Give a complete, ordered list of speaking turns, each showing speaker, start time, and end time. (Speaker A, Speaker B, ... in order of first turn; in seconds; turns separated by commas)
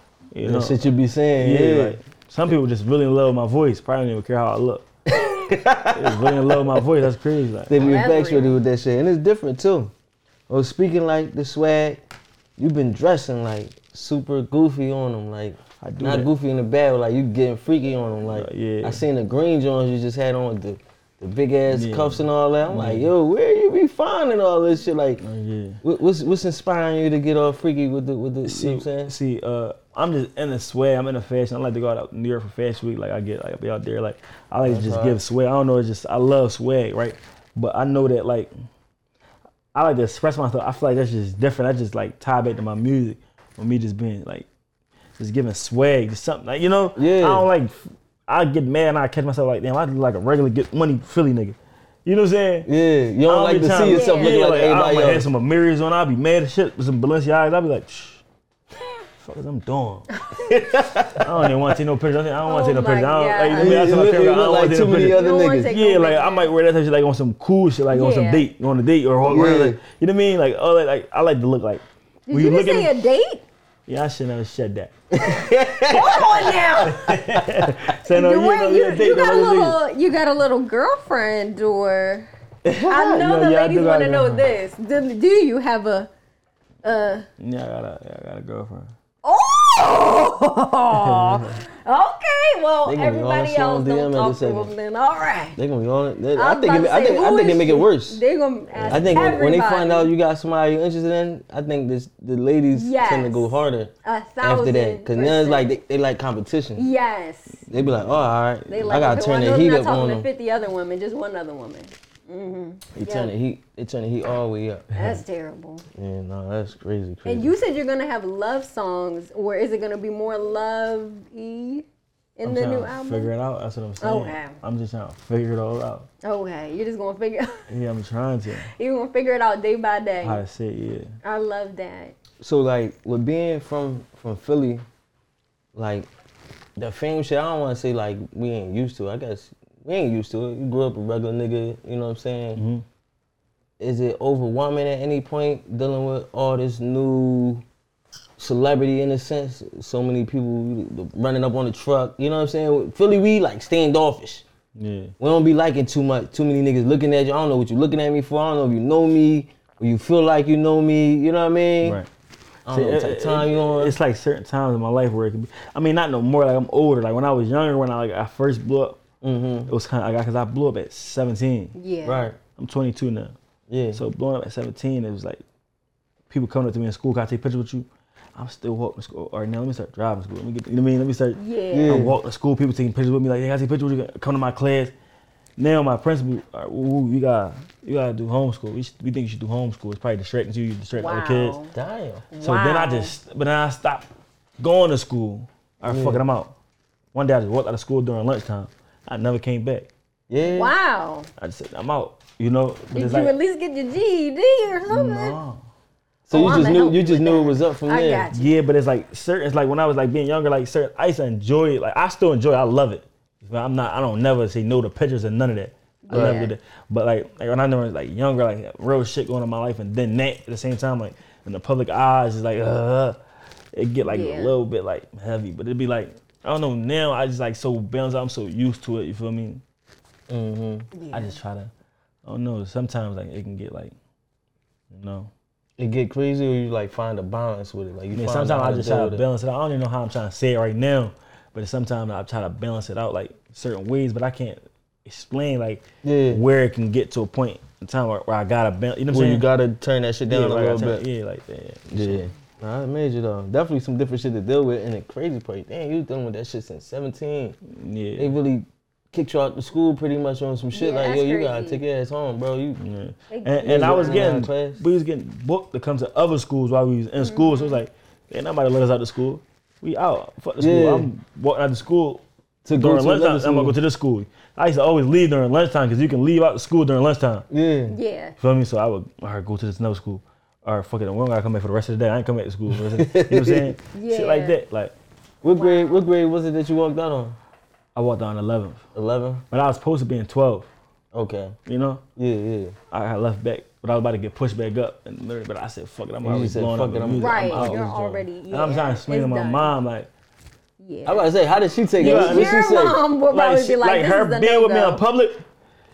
Speaker A: 0.3-4.9, Speaker B: 0.4-2.0, Speaker B: 5.1-6.9, Speaker A: 5.9-7.8, Speaker B: 7.7-9.9, Speaker C: 7.8-8.6, Speaker B: 10.5-12.0, Speaker B: 12.6-25.2, Speaker A: 15.8-16.3, Speaker A: 18.3-19.0, Speaker A: 21.7-23.1, Speaker A: 25.2-25.8, Speaker B: 25.8-29.1, Speaker A: 28.4-38.5, Speaker B: 34.7-35.2, Speaker A: 39.7-44.5, Speaker A: 45.2-52.7, Speaker B: 47.0-47.5, Speaker B: 52.7-55.3, Speaker A: 53.3-58.2, Speaker C: 53.9-54.4, Speaker A: 59.2-60.1, Speaker C: 60.1-60.5, Speaker B: 60.4-61.5, Speaker A: 61.2-73.0, Speaker C: 62.5-63.9, Speaker B: 63.5-65.8, Speaker C: 65.1-66.5, Speaker C: 67.9-68.5, Speaker B: 69.2-69.8, Speaker C: 72.3-73.5, Speaker A: 73.9-74.9, Speaker B: 75.2-77.8, Speaker C: 75.9-77.2, Speaker A: 76.8-79.8, Speaker C: 78.0-82.3, Speaker A: 82.6-84.5, Speaker C: 82.8-86.1, Speaker C: 86.8-87.3, Speaker A: 87.4-88.9, Speaker C: 89.2-95.6, Speaker A: 90.9-91.6, Speaker B: 92.8-94.7, Speaker B: 95.6-98.2, Speaker C: 96.3-100.1, Speaker A: 98.7-99.5, Speaker B: 98.9-106.9, Speaker C: 102.7-103.5, Speaker C: 104.0-105.8, Speaker C: 106.8-107.6, Speaker B: 107.7-110.3, Speaker A: 107.8-108.3, Speaker C: 108.7-113.3, Speaker B: 113.0-115.0, Speaker C: 114.9-115.8, Speaker B: 116.0-117.5, Speaker C: 117.2-121.9, Speaker C: 122.4-123.3, Speaker A: 122.4-126.1, Speaker C: 124.0-124.6, Speaker C: 126.2-127.7, Speaker A: 127.7-128.7, Speaker C: 128.8-130.4, Speaker A: 130.2-131.1, Speaker C: 131.2-132.1, Speaker B: 132.4-134.8, Speaker B: 135.7-136.1, Speaker B: 136.8-142.6, Speaker A: 142.6-142.8, Speaker B: 143.8-147.6, Speaker B: 148.4-154.5, Speaker A: 154.8-155.1, Speaker B: 155.2-162.0, Speaker A: 161.8-162.1, Speaker B: 162.7-164.0, Speaker A: 162.7-169.0, Speaker B: 169.2-169.7, Speaker A: 169.7-171.8, Speaker C: 171.8-172.3, Speaker B: 172.1-172.4, Speaker A: 172.6-173.3, Speaker B: 173.7-174.0, Speaker A: 173.9-175.4, Speaker A: 176.3-184.9, Speaker C: 181.4-182.0, Speaker B: 181.7-182.2, Speaker A: 185.6-191.6, Speaker C: 191.0-191.7, Speaker B: 191.7-192.3, Speaker C: 192.3-193.1, Speaker A: 192.4-194.1, Speaker A: 194.6-196.6, Speaker B: 195.8-196.2, Speaker A: 197.1-199.9, Speaker B: 200.3-200.7, Speaker C: 200.4-201.3, Speaker A: 201.4-203.3, Speaker C: 202.9-205.4, Speaker A: 204.9-205.6, Speaker B: 206.3-208.3, Speaker C: 206.3-208.5, Speaker A: 206.3-206.7, Speaker A: 208.3-223.2, Speaker C: 216.0-216.5, Speaker B: 216.1-216.4, Speaker A: 223.7-229.6, Speaker C: 224.1-224.5, Speaker B: 230.3-230.9, Speaker C: 230.9-231.4, Speaker A: 231.1-231.7, Speaker A: 232.2-233.9, Speaker A: 234.9-235.3, Speaker B: 235.8-239.2, Speaker A: 238.1-249.4, Speaker B: 246.0-246.4, Speaker B: 249.1-251.0, Speaker A: 250.3-252.3, Speaker B: 251.9-257.6, Speaker A: 257.7-258.4, Speaker B: 258.2-262.8, Speaker C: 260.7-261.8, Speaker A: 262.8-272.2, Speaker C: 263.3-264.3, Speaker B: 263.6-264.8, Speaker C: 267.2-267.8, Speaker B: 270.6-271.1, Speaker B: 272.6-273.8, Speaker A: 272.8-277.5, Speaker B: 277.5-278.0, Speaker C: 277.9-278.4, Speaker A: 278.4-284.9, Speaker B: 282.7-283.8, Speaker C: 283.9-284.6, Speaker B: 285.4-287.4, Speaker C: 285.5-286.0, Speaker A: 287.9-288.8, Speaker B: 288.9-289.4, Speaker A: 289.5-290.7, Speaker B: 291.1-291.6, Speaker A: 291.7-292.0, Speaker B: 292.2-292.8, Speaker A: 292.9-297.9, Speaker B: 296.2-298.3, Speaker C: 297.2-299.7, Speaker A: 298.5-300.1, Speaker C: 300.8-301.3, Speaker B: 301.1-303.0, Speaker C: 302.0-305.0, Speaker A: 302.0-305.4